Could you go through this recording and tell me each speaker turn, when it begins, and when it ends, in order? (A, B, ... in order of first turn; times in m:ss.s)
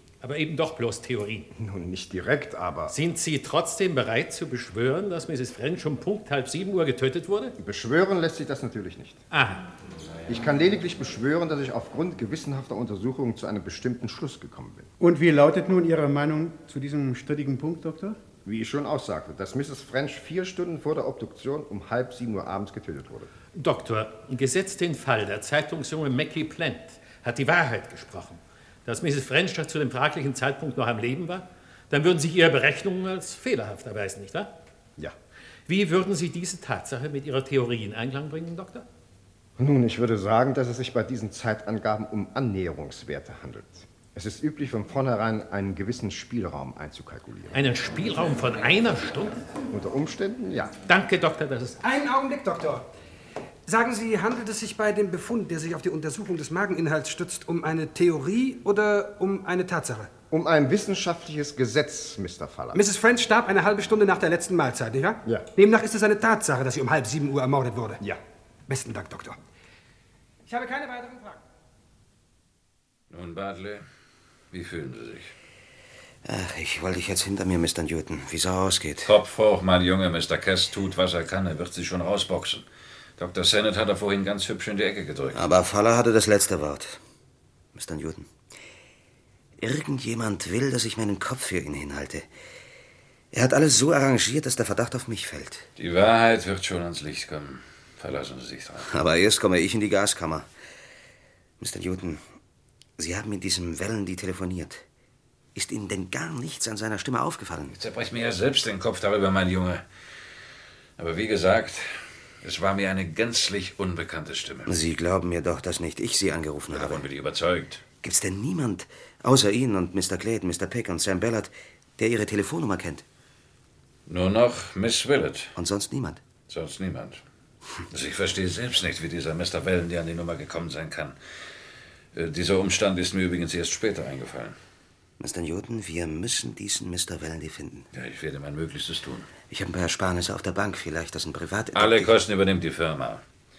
0:00.2-0:01.5 A
0:01.5-0:02.9 B
0:02.9-0:07.5 A
0:07.6-0:09.2 B
0:09.3-0:09.6 A
0:10.3-0:14.9 B
0:15.0-0:18.2 C
0:18.4-0:23.3 B
0:23.5-0:34.5 A
0:35.7-0:38.9 A
0:39.6-0:47.6 B
0:47.5-0:49.4 A
0:49.7-0:50.7 B
0:50.9-0:51.8 A
0:51.8-0:52.9 D
0:53.6-1:00.1 D
1:00.3-1:02.8 B
1:02.7-1:08.0 D
1:08.7-1:09.4 D
1:10.4-1:11.4 D
1:13.1-1:13.8 E
1:14.5-1:15.3 E
1:16.2-1:19.2 F
1:19.0-1:22.6 E
1:23.2-1:25.4 E
1:25.3-1:27.0 F
1:27.7-1:28.3 F
1:29.6-1:32.3 F
1:33.3-1:35.7 F
1:35.8-1:38.9 E
1:38.8-1:40.5 F
1:41.6-1:42.2 F
1:43.0-1:44.8 F
1:45.5-1:47.8 F
1:47.7-1:49.8 E
1:51.0-1:54.7 E
1:54.6-1:57.0 F
1:56.7-1:57.8 E
1:58.0-2:03.0 F
2:04.1-2:05.5 E
2:05.6-2:06.2 F
2:06.4-2:07.2 E
2:07.9-2:11.2 E
2:12.1-2:14.6 E
2:15.2-2:17.9 F
2:17.9-2:19.3 E
2:19.5-2:22.1 F
2:21.7-2:23.2 E